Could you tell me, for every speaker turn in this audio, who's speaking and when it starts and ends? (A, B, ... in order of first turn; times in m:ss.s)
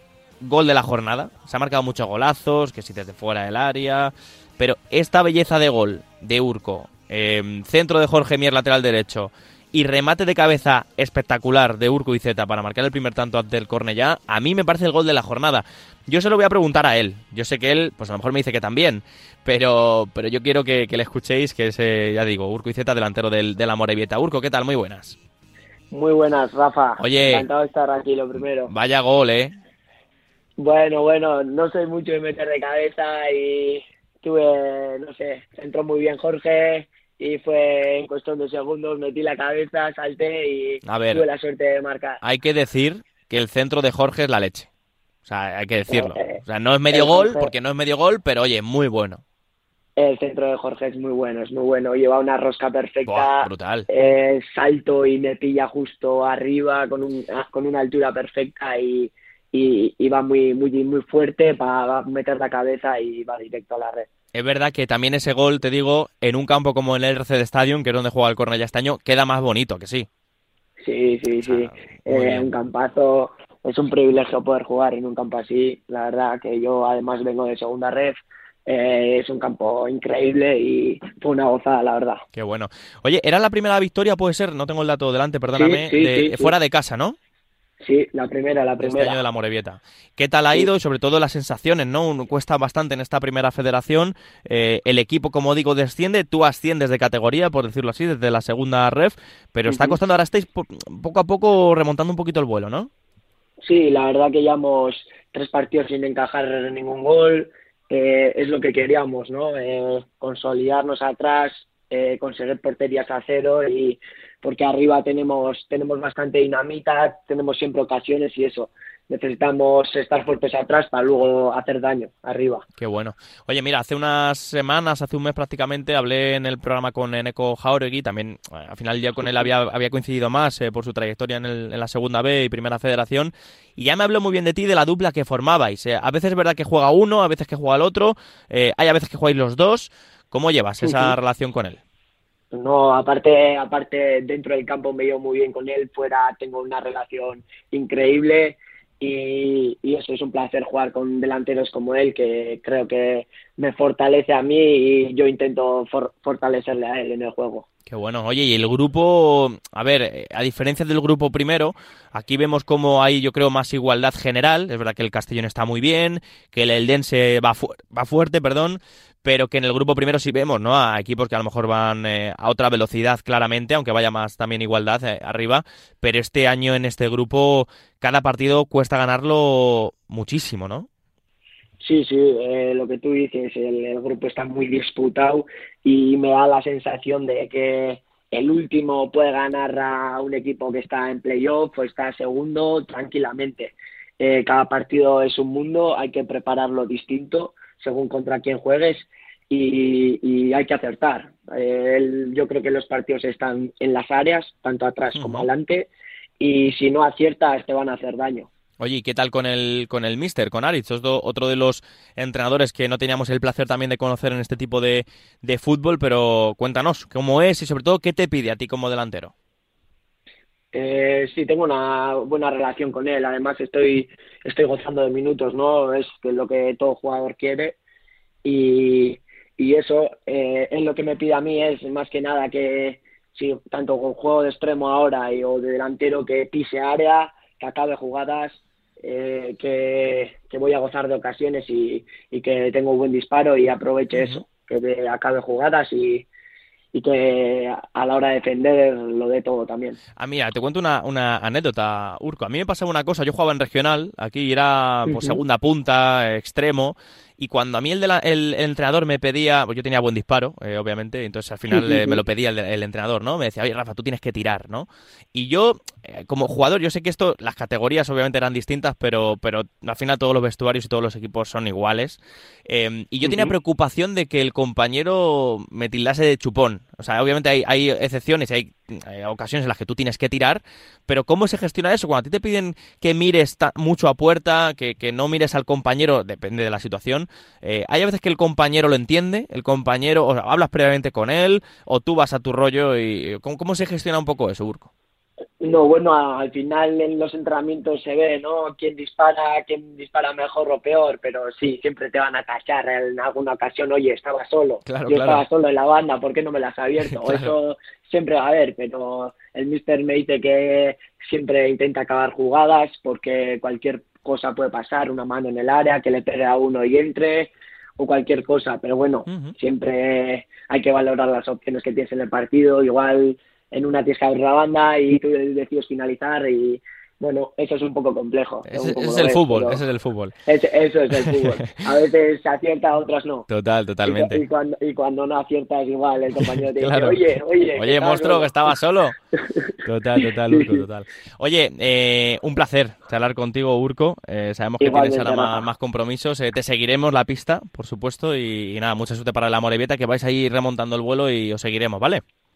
0:00.4-0:25.2 A
0:25.9-0:28.7 B
0:27.0-0:27.4 A
0:28.7-0:29.5 A
0:30.6-0:42.2 B
0:40.8-0:41.2 A
0:42.2-0:44.7 A
0:45.2-0:49.2 A
0:45.9-0:46.4 B
0:46.9-0:47.5 B
0:50.0-1:04.1 B
0:53.0-0:53.9 A
1:04.3-1:10.1 A
1:10.8-1:22.2 B
1:11.4-1:12.5 A
1:22.3-1:27.2 A
1:25.6-1:26.5 B
1:27.8-1:29.2 B
1:28.8-1:42.9 A
1:39.7-1:40.0 B
1:43.6-2:02.6 B
2:02.8-2:21.8 A
2:20.8-2:21.1 B
2:22.5-2:37.7 B
2:37.9-3:00.9 A
3:01.8-3:28.5 B
3:25.2-3:25.5 A
3:28.8-3:39.3 A
3:40.7-3:47.8 B
3:48.4-4:06.3 B
4:04.1-4:04.4 A
4:06.9-4:10.0 B
4:10.2-4:54.9 A
4:15.1-4:15.4 B
4:21.7-4:22.2 B
4:33.2-4:33.5 B
4:55.6-5:29.8 B
5:04.9-5:05.4 A
5:07.0-5:07.5 A
5:19.3-5:19.5 A
5:28.7-5:30.3 A
5:30.5-5:33.5 B
5:33.5-5:34.4 A
5:34.1-5:38.7 B
5:36.4-5:39.2 A
5:39.4-5:39.7 B
5:39.8-5:52.2 A
5:40.2-5:40.8 B
5:44.8-5:45.7 B